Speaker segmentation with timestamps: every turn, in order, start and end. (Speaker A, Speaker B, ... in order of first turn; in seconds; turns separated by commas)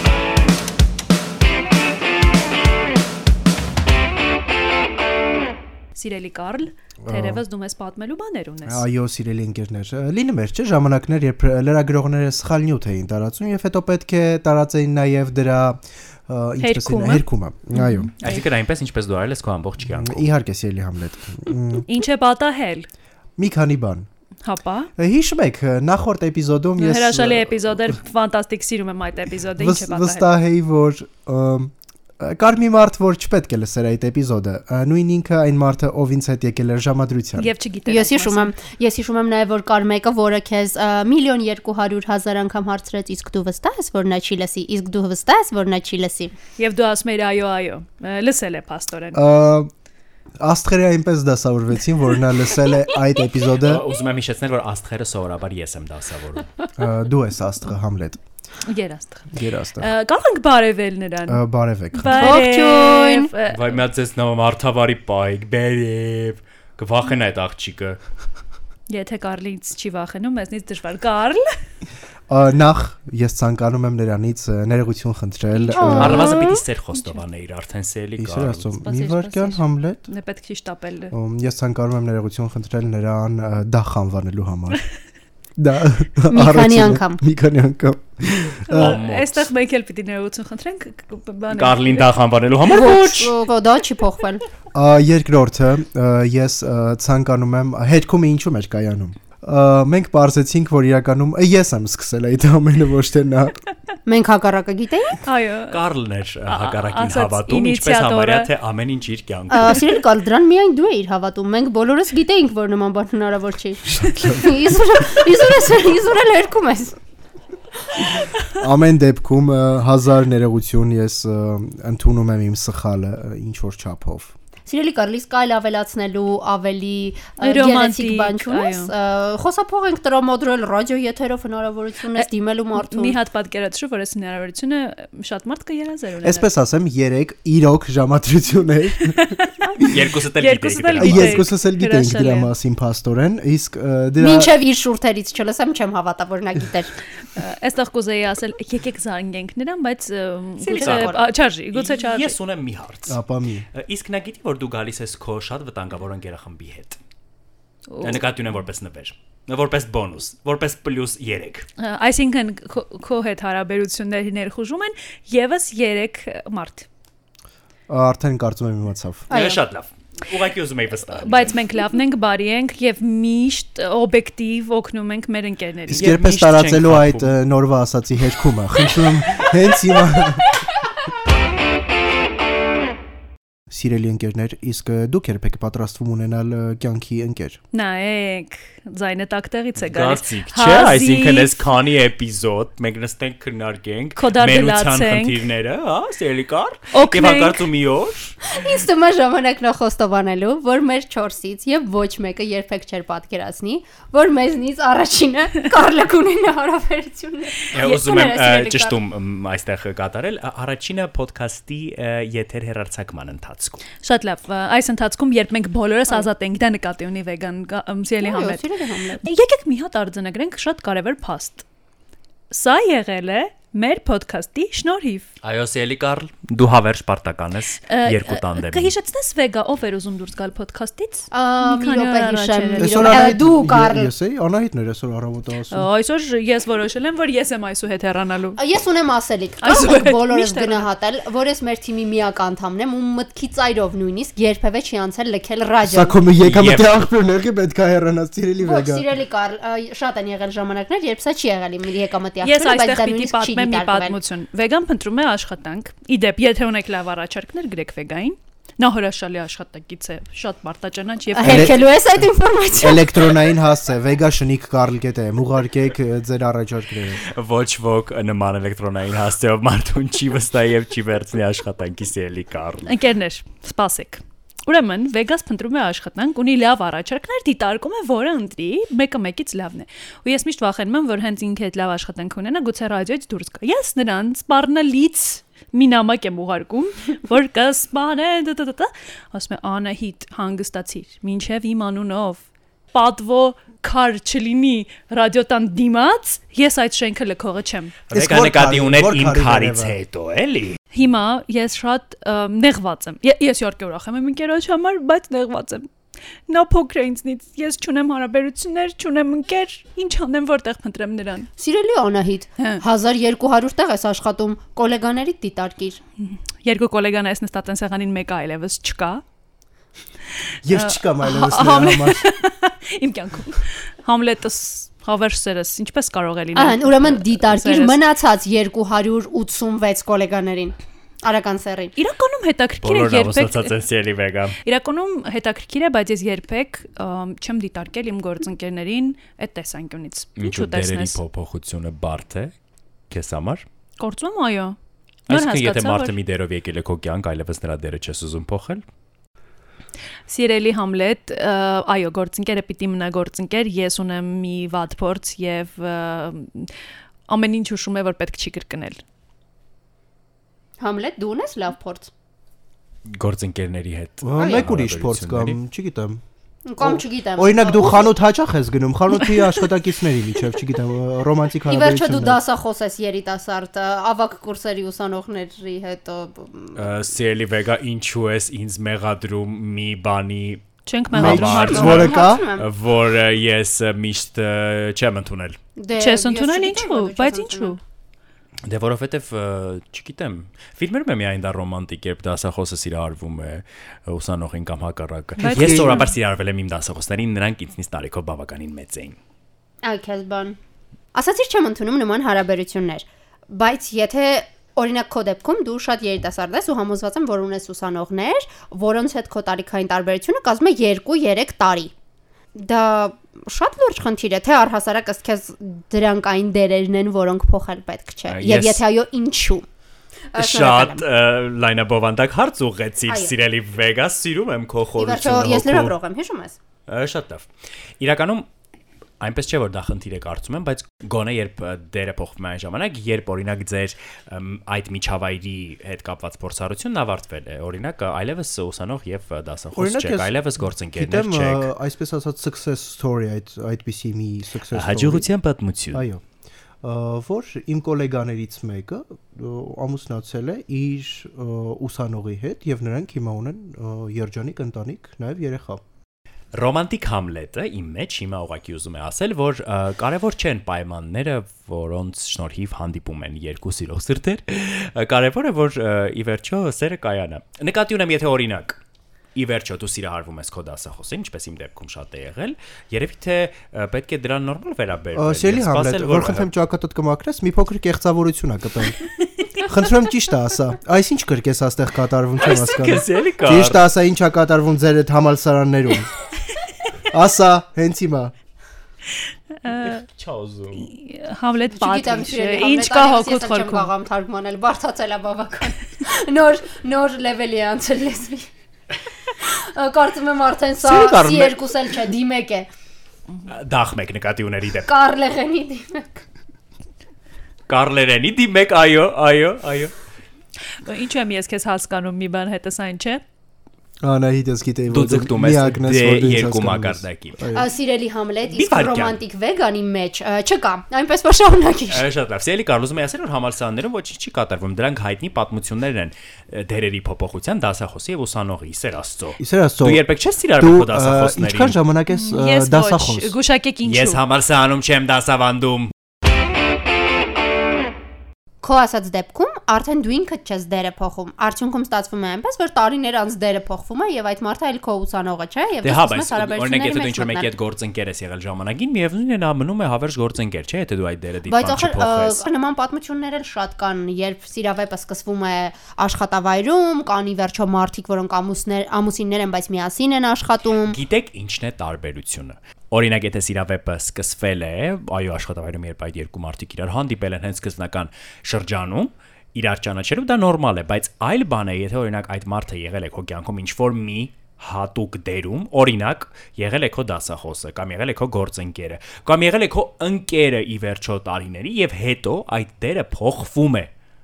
Speaker A: 5.9-8.8, Speaker B: 7.0-7.4, Speaker B: 8.7-18.1, Speaker A: 16.6-18.4, Speaker C: 18.2-20.3, Speaker B: 19.9-21.9, Speaker A: 21.9-22.9, Speaker B: 23.4-24.1, Speaker A: 24.4-24.9, Speaker B: 25.0-27.9, Speaker A: 26.8-30.3, Speaker B: 29.6-37.5, Speaker A: 37.4-38.5, Speaker D: 37.9-46.3, Speaker A: 46.6-49.2, Speaker B: 49.1-49.7, Speaker B: 50.4-53.8, Speaker C: 53.6-56.5, Speaker B: 56.8-58.2, Speaker A: 58.6-63.8, Speaker B: 59.3-59.9, Speaker B: 61.3-62.4, Speaker D: 62.1-63.3, Speaker C: 63.5-68.0, Speaker A: 68.9-71.5, Speaker B: 72.3-76.3, Speaker A: 75.5-76.2, Speaker D: 75.7-76.6, Speaker C: 75.8-78.8, Speaker A: 77.0-77.2, Speaker B: 78.2-80.0, Speaker A: 78.8-81.1, Speaker B: 81.1-84.8, Speaker B: 85.6-89.0, Speaker D: 86.3-87.2, Speaker A: 88.7-92.1, Speaker C: 88.7-89.5, Speaker C: 91.5-93.3, Speaker D: 92.6-94.5, Speaker B: 94.7-103.6, Speaker D: 104.0-105.2, Speaker A: 105.2-105.8, Speaker C: 105.7-110.0, Speaker A: 106.5-108.5, Speaker D: 109.5-117.0, Speaker B: 118.5-124.3, Speaker D: 124.7-133.2, Speaker A: 127.4-128.9, Speaker A: 132.8-136.5, Speaker B: 136.2-140.0, Speaker A: 139.2-142.5, Speaker C: 139.8-141.4, Speaker B: 141.0-144.5, Speaker D: 144.2-146.9, Speaker A: 147.3-152.3, Speaker D: 150.6-151.2, Speaker C: 150.7-151.2, Speaker C: 151.7-153.2, Speaker B: 153.1-153.7, Speaker C: 153.7-157.0, Speaker A: 157.9-158.2, Speaker C: 158.0-161.7, Speaker A: 161.8-166.9, Speaker B: 167.9-169.3, Speaker D: 169.3-169.6, Speaker C: 169.3-171.5, Speaker A: 171.2-176.0, Speaker B: 175.9-180.5, Speaker C: 175.9-177.3, Speaker B: 183.7-187.6, Speaker A: 187.7-191.6, Speaker C: 189.8-198.4, Speaker A: 194.2-195.4, Speaker A: 196.9-197.7, Speaker D: 198.5-209.0, Speaker C: 207.7-213.8, Speaker A: 214.0-218.6, Speaker D: 218.2-219.2, Speaker A: 219.2-221.6, Speaker A: 222.5-225.3, Speaker C: 225.4-228.9, Speaker A: 227.9-233.4, Speaker D: 231.3-234.1, Speaker B: 232.8-235.9, Speaker A: 235.7-238.6, Speaker D: 238.6-246.2, Speaker A: 239.6-240.9, Speaker B: 245.8-249.0, Speaker C: 246.4-246.9, Speaker D: 248.6-254.2, Speaker A: 252.4-261.8, Speaker D: 261.4-263.5, Speaker B: 261.4-267.2, Speaker C: 267.2-272.9, Speaker A: 272.8-297.9, Speaker C: 298.1-300.8, Speaker B: 298.1-299.9, Speaker A: 300.9-305.9, Speaker A: 306.5-311.5, Speaker D: 311.6-316.0, Speaker A: 316.2-319.2, Speaker B: 320.6-322.2, Speaker A: 320.7-328.0, Speaker D: 326.5-331.9, Speaker A: 331.9-333.7, Speaker C: 332.8-334.6, Speaker A: 334.6-341.2, Speaker C: 340.4-342.5, Speaker C: 343.1-343.6, Speaker A: 344.0-344.8, Speaker C: 345.3-348.8, Speaker A: 345.3-346.1, Speaker A: 350.3-356.7, Speaker A: 357.3-359.0, Speaker D: 360.8-362.1, Speaker C: 363.1-365.6, Speaker B: 364.2-366.2, Speaker D: 364.4-364.7, Speaker D: 366.6-368.1, Speaker B: 366.8-372.4, Speaker D: 371.7-376.9, Speaker C: 376.7-385.6, Speaker A: 380.9-382.1, Speaker B: 381.1-382.5, Speaker D: 381.4-382.7, Speaker D: 385.8-387.8, Speaker A: 386.0-387.8, Speaker C: 388.6-399.2, Speaker A: 395.4-396.1, Speaker B: 395.4-396.0, Speaker D: 399.8-400.6, Speaker D: 401.1-411.9, Speaker D: 412.5-419.6, Speaker C: 418.3-418.8, Speaker D: 420.3-421.0, Speaker C: 420.4-425.9, Speaker D: 423.1-423.3, Speaker D: 425.0-426.6, Speaker C: 426.9-427.5, Speaker C: 428.0-428.5, Speaker C: 429.2-441.7, Speaker B: 439.7-440.3, Speaker B: 440.9-445.3, Speaker C: 444.7-446.0, Speaker B: 445.9-446.2, Speaker B: 446.8-455.8, Speaker C: 456.5-468.8, Speaker C: 469.3-476.5, Speaker B: 475.1-479.0, Speaker B: 479.6-486.1, Speaker C: 482.4-483.8, Speaker B: 487.1-488.3, Speaker A: 489.6-490.0, Speaker C: 489.7-490.9, Speaker A: 490.7-493.9, Speaker D: 491.7-498.5, Speaker D: 499.3-502.7, Speaker C: 500.8-501.7, Speaker C: 503.5-504.9, Speaker D: 504.9-506.2, Speaker C: 507.7-509.9, Speaker A: 510.8-513.2, Speaker B: 514.0-517.7, Speaker C: 514.9-517.4, Speaker D: 517.5-522.1, Speaker C: 518.5-519.2, Speaker C: 521.9-531.8, Speaker B: 529.4-530.0, Speaker B: 530.6-533.3, Speaker A: 532.1-534.2, Speaker C: 533.9-535.9, Speaker D: 538.6-547.5, Speaker C: 545.8-552.4, Speaker D: 551.5-561.0, Speaker C: 560.9-583.9